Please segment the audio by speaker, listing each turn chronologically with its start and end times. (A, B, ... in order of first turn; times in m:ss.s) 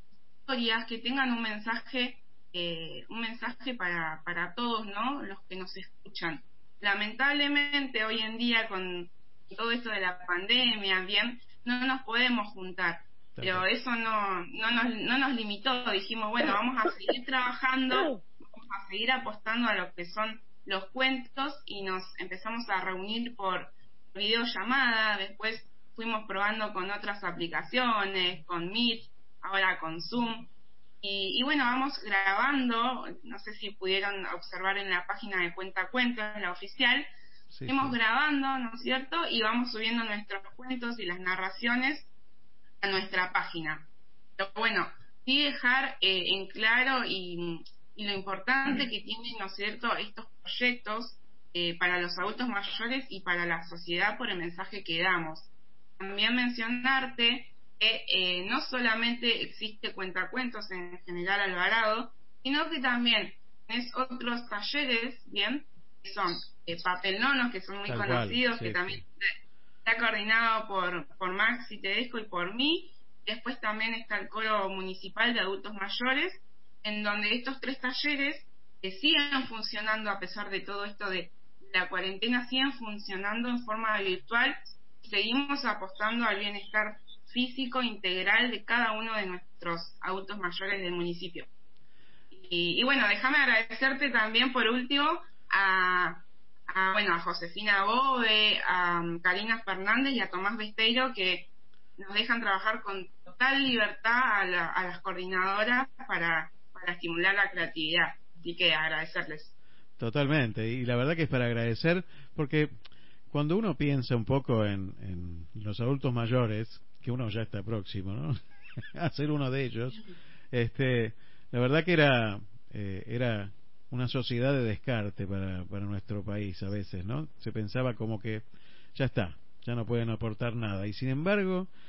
0:00.5-0:30.5 A
0:13.4-0:13.6 B
0:31.0-0:37.1 A
0:37.5-0:38.0 B
0:37.7-0:42.1 A
0:42.8-1:09.1 A
1:07.9-1:09.0 B
1:09.8-1:31.5 A
1:32.3-1:49.6 A
1:50.0-1:52.7 B
1:53.3-1:58.4 B
1:59.0-2:08.4 B
2:09.0-2:11.7 B